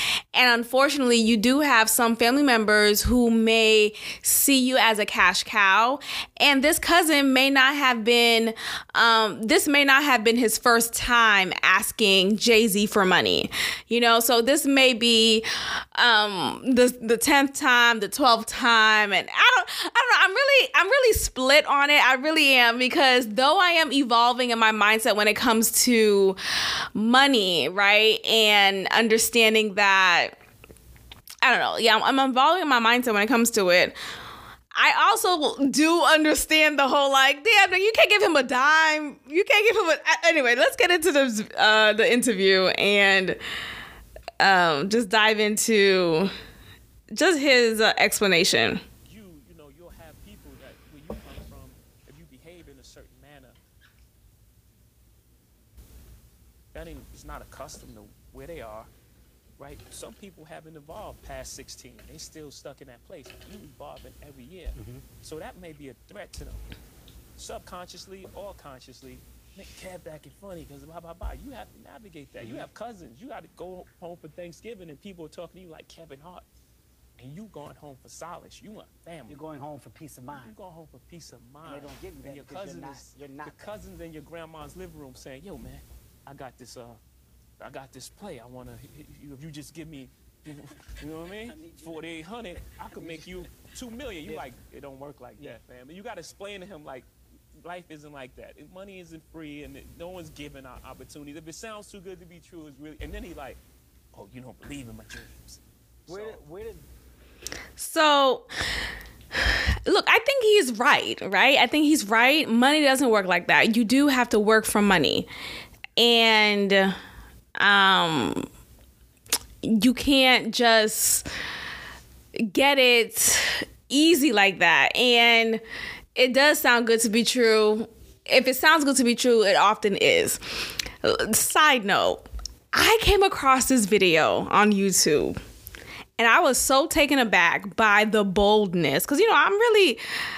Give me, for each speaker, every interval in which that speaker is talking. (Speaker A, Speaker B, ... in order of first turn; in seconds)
Speaker A: 0.3-26.4, 26.9-30.4, 31.4-34.0, 34.8-43.4, 44.4-46.3, 47.2-48.8, 107.8-108.5, 109.4-115.3, 116.0-117.0, 117.6-118.5, 119.6-121.2, 122.4-125.6, 126.2-130.4, 131.0-135.4, 136.2-140.0
Speaker B: 49.1-53.6, 56.7-58.9, 59.6-66.6, 67.4-76.5, 77.2-79.4, 80.3-87.0, 87.6-97.1, 97.6-103.6, 104.1-106.4
Speaker C: 64.8-65.0, 79.3-80.5, 81.7-83.7, 93.0-93.5, 106.1-106.8